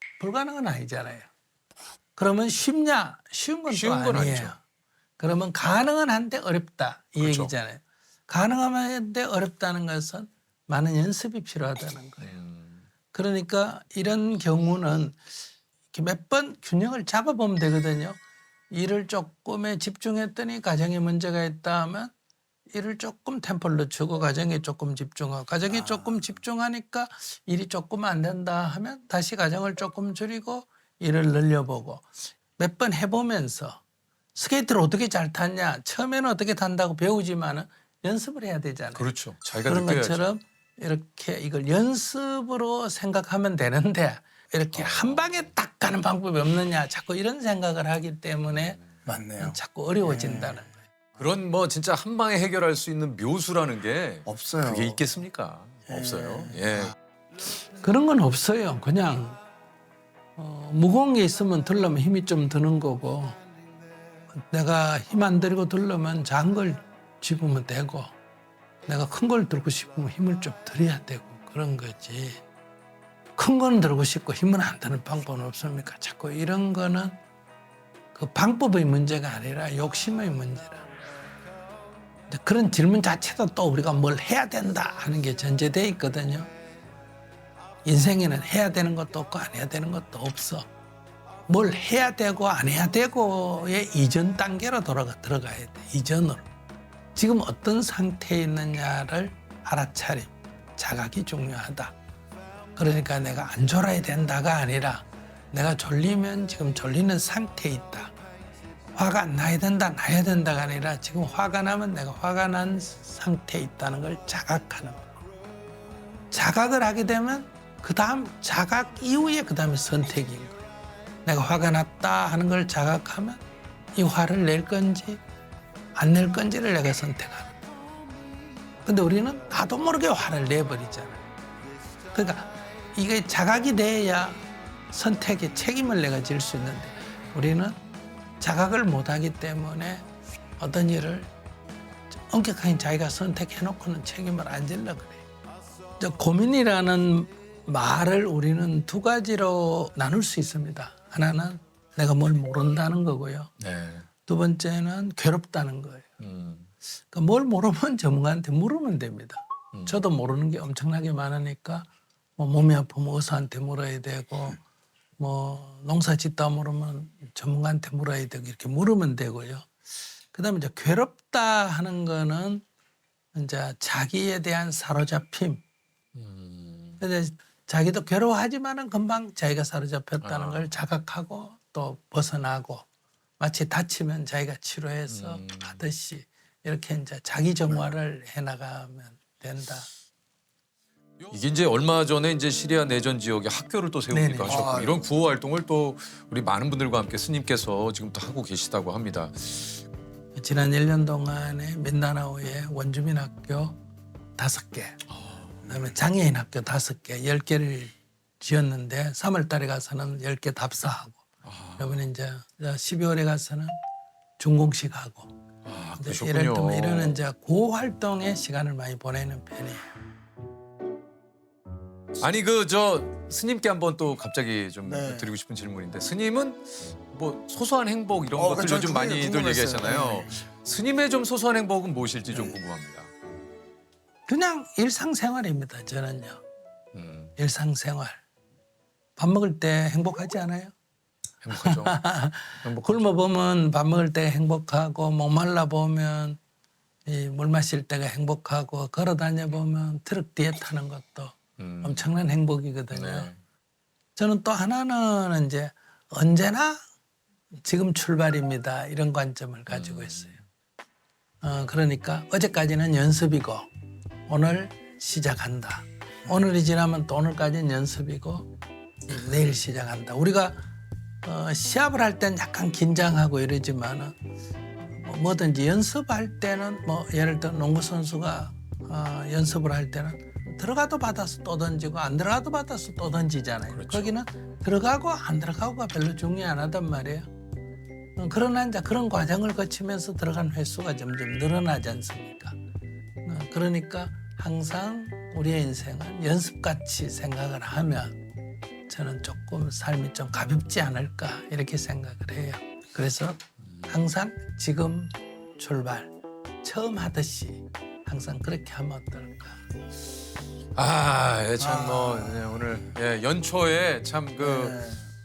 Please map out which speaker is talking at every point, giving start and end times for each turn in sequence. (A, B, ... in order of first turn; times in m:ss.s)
0:00.2-0:01.3 A
0:02.2-0:04.6 A
0:03.7-0:04.6 B
0:05.2-0:12.3 A
0:07.2-0:07.5 B
0:12.2-0:12.9 B
0:13.1-0:15.2 A
0:15.9-0:18.2 A
0:18.7-0:22.1 A
0:22.7-0:33.8 A
0:25.7-0:26.3 C
0:34.3-0:39.1 A
0:38.9-0:40.3 B
0:39.6-0:48.8 A
0:44.7-0:45.5 B
0:48.5-0:48.9 B
0:49.0-0:50.7 C
0:49.4-0:50.8 A
0:51.2-0:56.9 B
0:54.2-0:55.0 C
0:55.9-0:56.9 C
0:57.8-0:59.4 A
1:00.4-1:03.4 A
1:04.3-1:08.1 A
1:08.9-1:12.4 A
1:13.4-1:17.1 A
1:18.1-1:20.8 A
1:22.3-1:26.5 A
1:27.8-1:30.6 A
1:31.5-1:36.4 A
1:37.1-1:41.9 A
1:42.8-1:48.1 A
1:49.0-1:55.0 A
1:56.3-2:00.6 A
2:01.2-2:03.4 A
2:03.9-2:05.2 A
2:06.0-2:07.5 A
2:08.8-2:11.2 A
2:12.1-2:17.8 A
2:18.4-2:20.0 A
2:20.6-2:21.3 A
2:22.2-2:25.2 A
2:26.0-2:33.5 A
2:33.6-2:34.1 B
2:34.2-2:36.1 A
2:36.2-2:36.7 B
2:37.1-2:41.9 A
2:39.7-2:40.0 B
2:42.4-2:44.6 A
2:45.2-2:49.7 A
2:50.3-2:52.6 A
2:53.3-2:55.6 A
2:56.1-2:57.0 B
2:57.0-3:02.8 A
3:00.2-3:00.8 B
3:03.4-3:09.9 A
3:05.1-3:05.8 B
3:11.2-3:19.8 B
3:14.1-3:14.6 A
3:14.4-3:15.0 C
3:20.4-3:23.8 A
3:24.4-3:25.0 A
3:25.1-3:25.6 B
3:25.6-3:25.9 C
3:25.7-3:31.2 A
3:31.4-3:32.0 B
3:31.8-3:33.7 A
3:34.4-3:35.3 A
3:35.6-3:37.2 B
3:36.0-3:39.8 A
3:42.2-3:53.1 B
3:44.8-3:45.3 C
3:48.4-3:50.4 C
3:52.3-3:52.6 C
3:54.3-3:56.4 A
3:56.9-3:57.3 B
3:57.4-3:58.2 A
3:59.2-4:00.7 A
4:01.4-4:02.0 B
4:01.6-4:06.4 A
4:02.6-4:03.1 B
4:07.1-4:13.3 A
4:11.6-4:12.1 B
4:12.9-4:13.4 B
4:14.2-4:16.8 A
4:17.6-4:20.4 A
4:19.7-4:20.4 B
4:21.4-4:23.7 A
4:24.3-4:28.5 A
4:29.1-4:30.6 A
4:31.2-4:34.1 A
4:34.8-4:47.3 A
4:43.7-4:44.1 B
4:48.2-4:52.6 A
4:53.2-4:58.2 A
4:58.9-5:09.6 A
5:03.6-5:03.9 B
5:10.8-5:14.8 B
5:11.6-5:12.7 C
5:14.4-5:15.1 C